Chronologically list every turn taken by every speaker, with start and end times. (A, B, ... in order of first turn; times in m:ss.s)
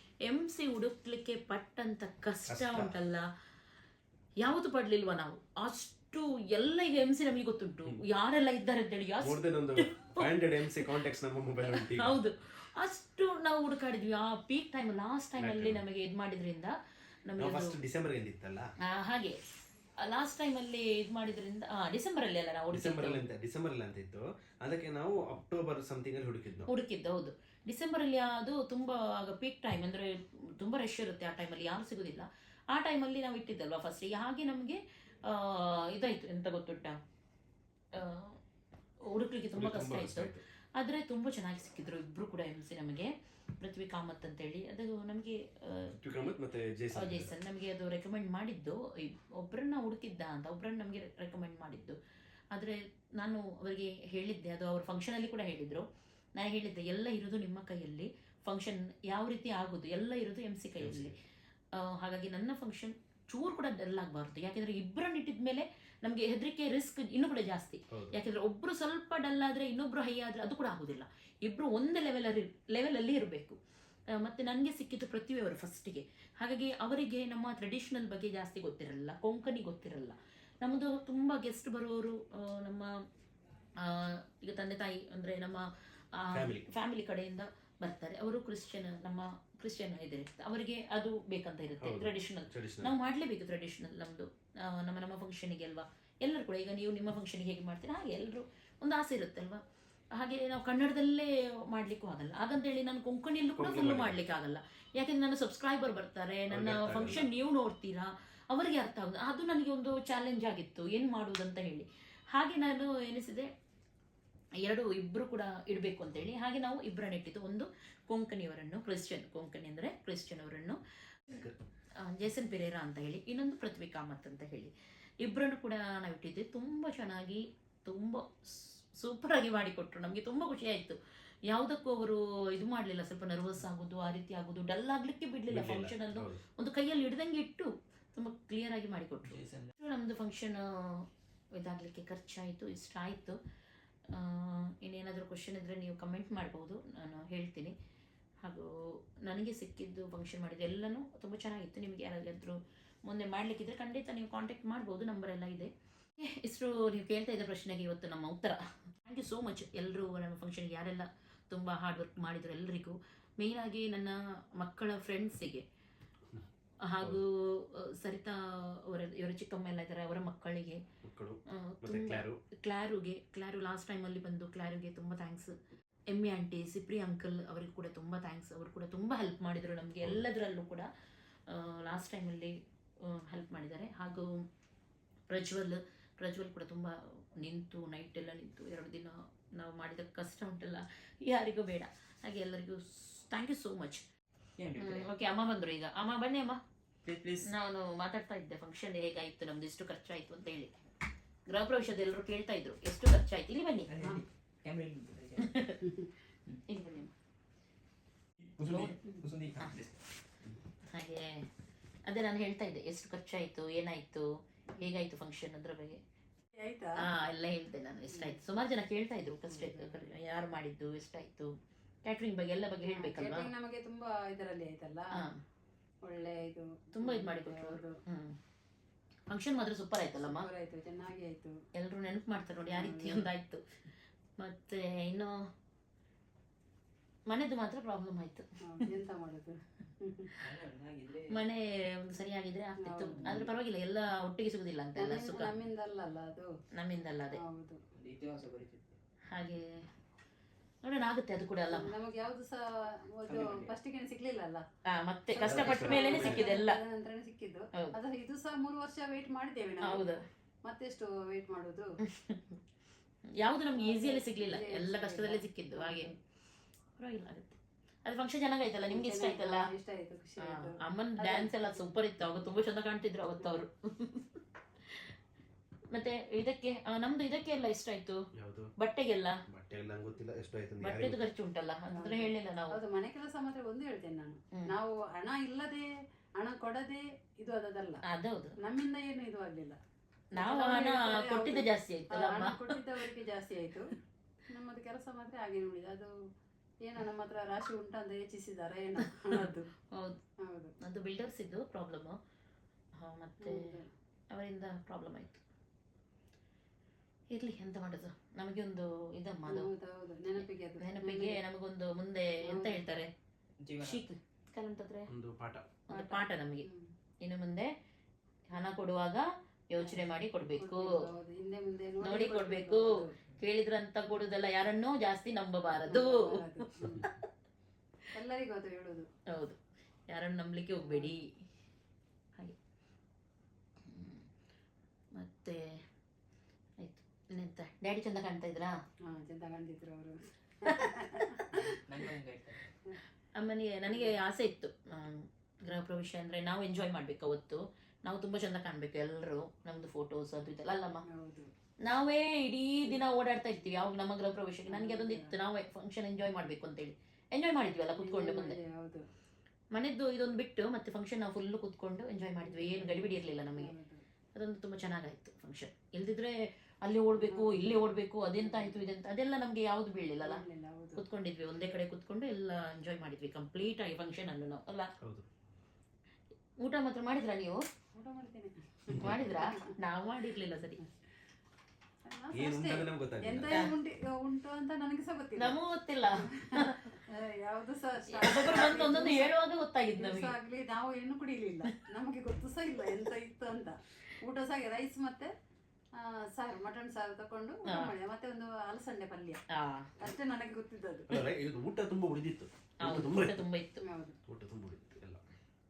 0:00.2-0:03.3 A
0:02.5-0:03.0 B
0:04.4-0:10.9 A
0:09.2-0:12.2 B
0:11.6-0:17.8 A
0:15.4-0:15.8 B
0:17.4-0:18.7 B
0:18.8-0:19.4 A
0:20.0-0:23.2 A
0:22.7-0:26.7 B
0:26.7-0:37.0 A
0:37.9-0:38.4 A
0:39.0-0:46.0 A
0:39.5-0:40.4 B
0:45.9-0:47.3 B
0:46.9-0:52.0 A
0:52.5-1:01.2 A
1:00.8-1:01.2 B
1:01.7-1:13.6 A
1:07.9-1:08.2 B
1:14.1-1:23.0 A
1:23.8-1:39.6 A
1:26.3-1:26.7 B
1:31.8-1:32.9 B
1:40.1-1:53.5 A
1:43.6-1:44.2 B
1:46.5-1:47.3 B
1:54.6-2:00.8 A
2:01.3-2:01.6 B
2:02.0-2:23.4 A
2:15.5-2:16.4 B
2:19.2-2:19.7 C
2:24.1-2:27.8 A
2:28.4-2:45.7 A
2:46.8-2:50.9 A
2:51.0-2:52.4 B
2:51.5-2:55.6 A
2:56.1-3:00.9 A
3:01.5-3:04.5 A
3:05.3-3:14.0 A
3:14.6-3:15.1 C
3:14.8-3:16.6 A
3:17.0-3:17.5 C
3:17.4-3:20.8 A
3:21.5-3:23.9 A
3:23.9-3:25.6 C
3:25.4-3:25.8 A
3:26.7-3:27.1 A
3:28.4-3:30.0 C
3:30.9-3:31.5 A
3:32.1-3:36.0 A
3:36.6-3:37.1 D
3:37.0-3:43.5 A
3:39.5-3:40.0 D
3:42.9-3:45.2 D
3:45.1-3:45.4 A
3:46.0-3:48.0 D
3:46.9-3:48.4 A
3:49.3-3:50.5 A
3:50.2-3:51.6 D
3:51.8-3:53.6 A
3:52.7-3:53.3 D
3:54.4-3:55.5 A
3:57.3-3:58.9 A
3:58.7-4:00.3 D
4:00.4-4:01.4 C
4:01.3-4:05.6 A
4:02.8-4:03.5 D
4:03.1-4:03.5 C
4:05.0-4:06.5 D
4:06.7-4:07.4 A
4:07.3-4:07.8 D
4:07.9-4:09.0 C
4:09.3-4:09.9 A
4:10.8-4:12.0 A
4:11.7-4:14.6 D
4:13.3-4:13.7 C
4:14.9-4:16.8 A
4:15.3-4:20.1 D
4:15.4-4:16.5 B
4:19.8-4:20.2 A
4:20.6-4:21.9 D
4:22.0-4:22.6 A
4:23.4-4:26.1 A
4:23.8-4:26.2 D
4:27.0-4:29.7 A
4:28.9-4:31.6 D
4:30.4-4:34.3 A
4:35.9-4:38.3 A
4:38.3-4:38.7 B
4:38.8-4:39.4 A
4:39.5-4:41.2 B
4:40.8-4:42.8 A
4:41.9-4:48.0 D
4:48.0-4:48.6 A
4:48.6-4:49.8 D
4:50.3-4:52.8 A
4:50.4-4:53.9 D
4:54.5-4:56.1 D
4:56.8-4:59.7 D
4:59.3-5:00.2 A
5:00.4-5:00.7 D
5:00.8-5:02.2 A
5:03.0-5:03.8 A
5:03.4-5:03.9 D
5:04.3-5:05.4 A
5:07.3-5:09.7 A
5:09.5-5:11.4 D
5:10.4-5:13.1 A
5:12.4-5:12.8 D
5:13.6-5:14.0 C
5:13.8-5:15.1 A
5:15.1-5:15.7 B
5:15.9-5:16.7 A
5:15.9-5:16.9 D
5:17.2-5:17.7 A
5:18.5-5:21.0 A
5:20.6-5:23.2 D
5:22.0-5:26.4 A
5:25.8-5:27.1 D
5:28.1-5:29.1 D
5:29.3-5:31.3 A
5:33.9-5:34.2 A
5:35.2-5:35.8 A
5:36.8-5:38.8 A
5:39.0-5:41.8 D
5:41.7-5:42.7 C
5:43.4-5:51.0 A
5:51.1-5:51.5 D
5:51.8-5:58.6 A
5:54.7-5:55.3 D
5:58.0-5:59.1 D
5:59.7-6:03.7 A
6:02.5-6:04.0 D
6:04.4-6:10.4 A
6:07.2-6:08.8 D
6:10.2-6:11.0 D
6:11.0-6:14.9 A
6:15.0-6:15.3 B
6:16.6-6:17.6 A
6:18.0-6:19.7 D
6:18.9-6:20.8 A
6:22.0-6:25.6 D
6:22.3-6:23.6 B
6:25.4-6:26.9 A
6:26.2-6:29.3 D
6:28.1-6:30.4 A
6:30.0-6:35.3 D
6:36.0-6:39.4 D
6:37.7-6:37.9 A
6:39.5-6:40.0 A
6:40.0-6:41.1 D
6:41.1-6:43.5 B
6:42.8-6:43.8 A
6:43.8-6:44.2 D
6:44.3-6:45.2 B